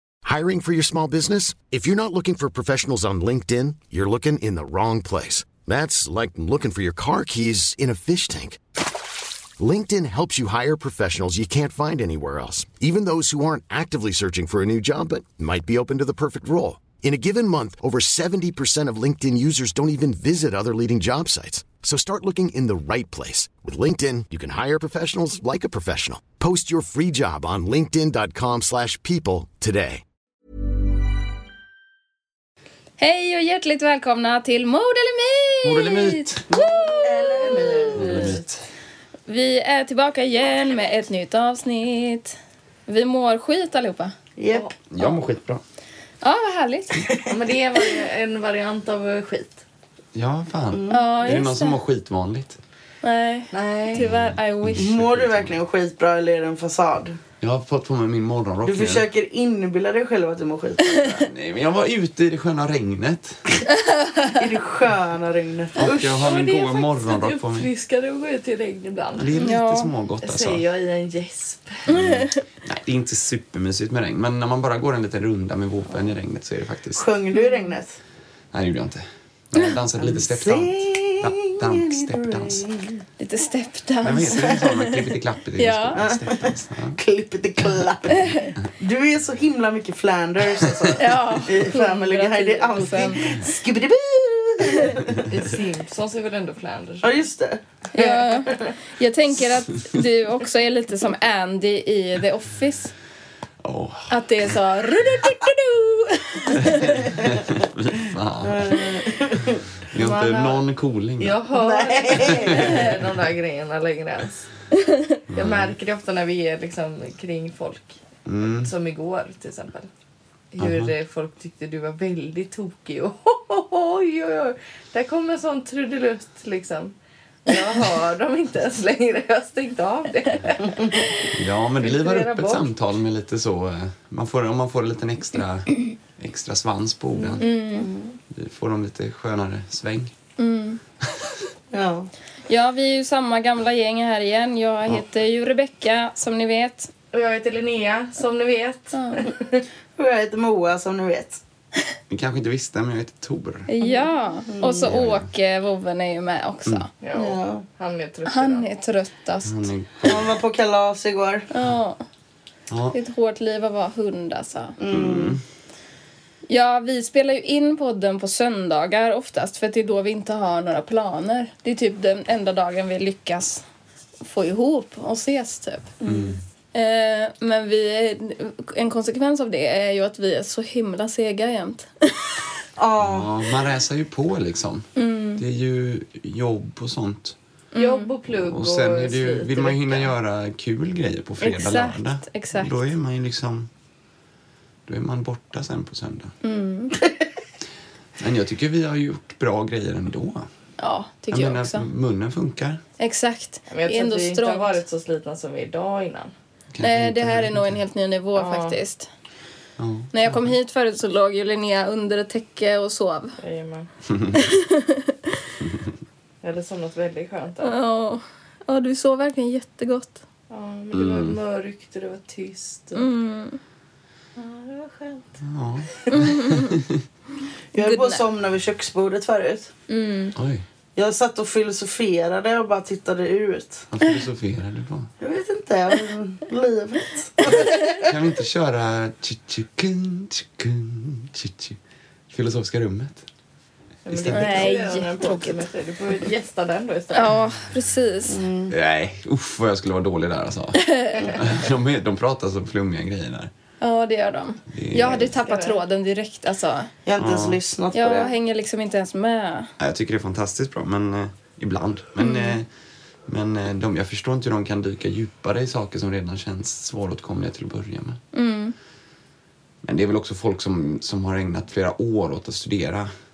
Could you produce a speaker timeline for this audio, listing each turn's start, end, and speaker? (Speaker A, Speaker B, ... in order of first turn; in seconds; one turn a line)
Speaker A: 0.2-8.6
Speaker A: 9.6-30.0
Speaker B: 33.0-37.9
Speaker C: 35.6-36.4
Speaker D: 36.5-38.4
Speaker E: 37.9-38.4
Speaker C: 38.0-38.6
Speaker B: 39.3-44.1
Speaker D: 44.4-44.7
Speaker C: 44.9-45.6
Speaker B: 46.2-47.0
Speaker D: 47.1-47.4
Speaker E: 47.3-49.6
Speaker C: 50.1-52.6
Speaker D: 50.7-51.0
Speaker B: 50.9-51.8
Speaker B: 53.0-54.9
Speaker E: 53.5-54.1
Speaker C: 54.0-55.6
Speaker D: 54.8-57.2
Speaker C: 57.4-59.0
Speaker D: 58.6-61.2
Speaker C: 61.2-63.4
Speaker D: 64.3-66.3
Speaker C: 65.8-67.7
Speaker E: 65.9-69.5
Speaker C: 69.2-70.7
Speaker B: 69.4-69.9
Speaker E: 70.2-72.0
Speaker B: 71.9-72.4
Speaker C: 71.9-77.0
Speaker D: 77.0-78.0
Speaker C: 78.5-82.6
Speaker D: 80.0-83.0
Speaker B: 83.2-86.0
Speaker C: 84.0-87.0
Speaker D: 86.0-95.2
Speaker B: 88.2-88.5
Speaker B: 91.0-93.5
Speaker E: 95.2-97.2
Speaker D: 97.0-97.6
Speaker B: 97.9-102.9
Speaker E: 98.0-98.2
Speaker C: 103.6-104.2
Speaker B: 104.1-107.0
Speaker C: 106.6-108.8
Speaker D: 107.0-107.6
Speaker D: 108.4-109.6
Speaker C: 109.9-111.4
Speaker E: 110.0-110.6
Speaker E: 111.2-114.5
Speaker D: 111.5-112.9
Speaker C: 112.3-112.8
Speaker C: 115.3-115.8
Speaker E: 115.3-118.0
Speaker C: 118.2-118.7
Speaker E: 118.6-119.9
Speaker E: 120.5-126.9
Speaker C: 120.6-120.9
Speaker E: 127.5-131.3
Speaker C: 131.3-137.4
Speaker E: 131.8-132.7
Speaker E: 137.2-138.1
Speaker B: 137.4-137.9
Speaker C: 138.3-140.1
Speaker B: 140.4-140.8
Speaker D: 141.7-142.1
Speaker B: 142.5-146.9
Speaker E: 147.1-149.6
Speaker B: 148.9-149.2
Speaker D: 150.0-151.4
Speaker C: 152.1-153.7
Speaker B: 153.7-156.9
Speaker D: 154.5-154.9
Speaker C: 154.8-155.3
Speaker E: 157.0-158.7
Speaker D: 157.1-157.7
Speaker B: 158.2-159.7
Speaker C: 159.4-160.3
Speaker D: 160.0-161.5
Speaker B: 161.5-162.0
Speaker C: 162.7-162.9
Speaker B: 162.9-164.8
Speaker D: 164.8-165.4
Speaker C: 164.9-165.4
Speaker B: 166.5-173.6
Speaker B: 174.2-176.0
Speaker C: 176.0-176.4
Speaker B: 176.7-182.4
Speaker D: 182.8-183.3
Speaker C: 183.0-187.3
Speaker B: 184.9-185.4
Speaker B: 187.7-188.1
Speaker E: 187.7-190.1
Speaker C: 188.3-193.7
Speaker B: 191.4-192.8
Speaker C: 194.9-196.3
Speaker B: 196.4-197.0
Speaker C: 198.2-200.5
Speaker B: 200.8-201.9
Speaker C: 201.3-202.8
Speaker B: 203.0-204.8
Speaker E: 203.7-206.3
Speaker C: 206.7-207.7
Speaker B: 206.8-209.1
Speaker E: 208.3-208.8
Speaker C: 209.8-210.5
Speaker B: 210.1-213.4
Speaker E: 213.4-213.9
Speaker C: 214.1-214.4
Speaker B: 214.3-215.4
Speaker E: 216.4-217.8
Speaker B: 217.6-220.2
Speaker E: 220.5-223.1
Speaker C: 220.9-221.4
Speaker B: 222.9-223.6
Speaker E: 224.3-225.4
Speaker C: 225.4-227.0
Speaker B: 226.1-226.7
Speaker D: 227.7-229.7
Speaker B: 227.8-228.2
Speaker B: 229.9-230.3
Speaker C: 230.3-230.6
Speaker D: 230.9-233.9
Speaker C: 233.9-235.1
Speaker D: 235.2-238.1
Speaker C: 238.0-241.8
Speaker C: 242.3-243.2
Speaker E: 244.1-247.3
Speaker C: 244.1-244.8
Speaker B: 244.3-245.6
Speaker B: 247.1-248.4
Speaker D: 248.3-248.7
Speaker C: 248.7-253.5
Speaker B: 250.8-251.4
Speaker E: 251.1-251.7
Speaker B: 253.8-256.9
Speaker C: 254.7-255.3
Speaker E: 255.0-255.8
Speaker D: 257.1-258.3
Speaker C: 257.2-257.6
Speaker B: 257.9-259.7
Speaker C: 259.8-262.7
Speaker B: 262.2-262.6
Speaker C: 263.3-268.2
Speaker B: 268.3-268.7
Speaker C: 269.8-273.1